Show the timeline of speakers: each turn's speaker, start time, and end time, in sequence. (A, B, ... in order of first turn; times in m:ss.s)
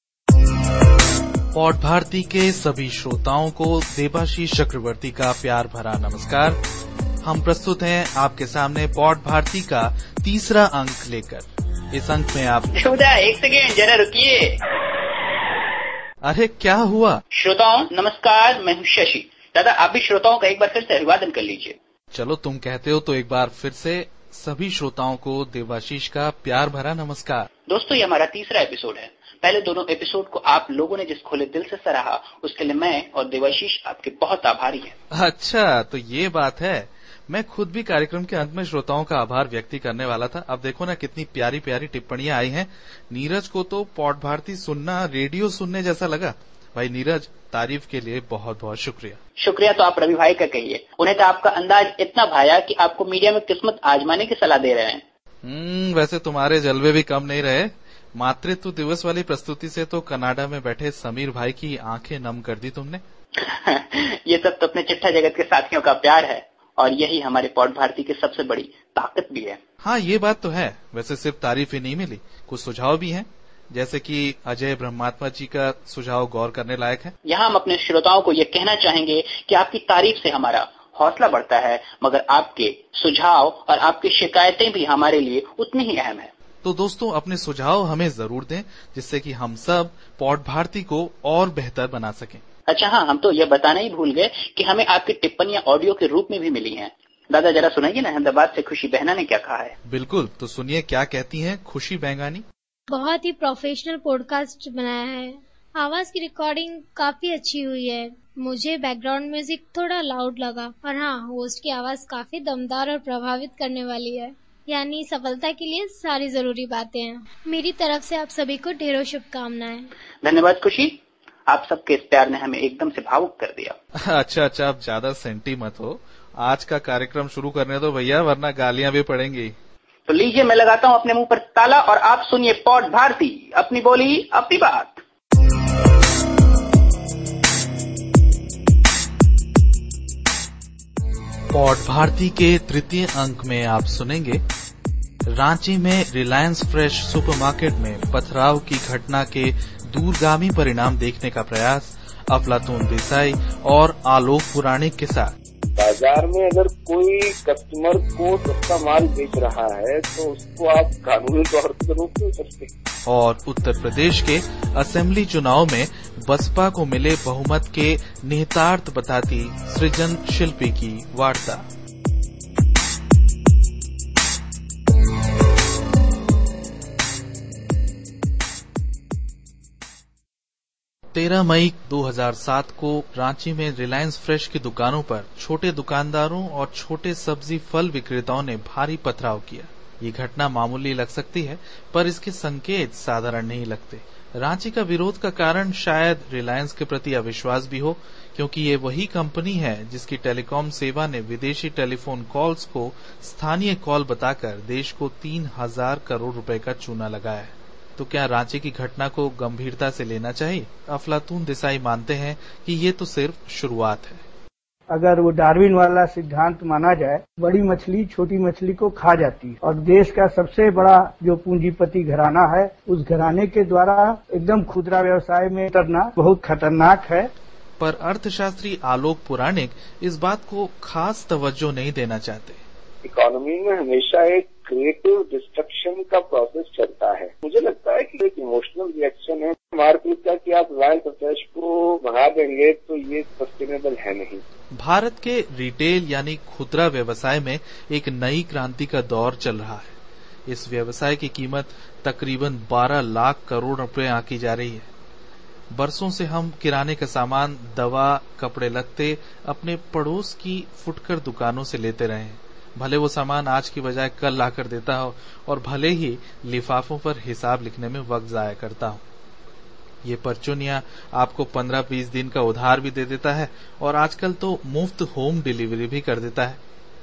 0:01.5-0:06.6 A
0:07.2-0:12.7 A
0:12.8-0:14.6 B
0:16.2-0:17.2 A
0:17.4-0:21.8 B
0:22.1-0:27.5 A
0:27.7-0:34.9 B
0:35.1-0:49.2 A
0:49.4-0:55.0 B
0:55.4-1:03.0 A
1:03.4-1:09.6 B
1:09.8-1:17.1 A
1:17.3-1:26.3 B
1:26.6-1:32.4 A
1:32.7-1:39.7 B
1:39.8-1:42.4 A
1:42.9-1:59.9 C
2:00.2-2:01.0 B
2:01.5-2:03.7 B
2:04.0-2:09.5 A
2:10.1-2:15.0 B
2:21.5-2:24.4 A
2:25.3-2:35.3 A
2:35.7-2:42.7 D
2:43.0-2:51.6 A
3:01.1-3:34.2 A
3:34.9-3:47.3 E
3:47.8-3:52.6 A
3:53.0-4:04.4 D
4:04.7-4:09.9 A
4:10.4-4:14.9 A
4:15.7-4:29.0 A
4:30.0-4:36.6 A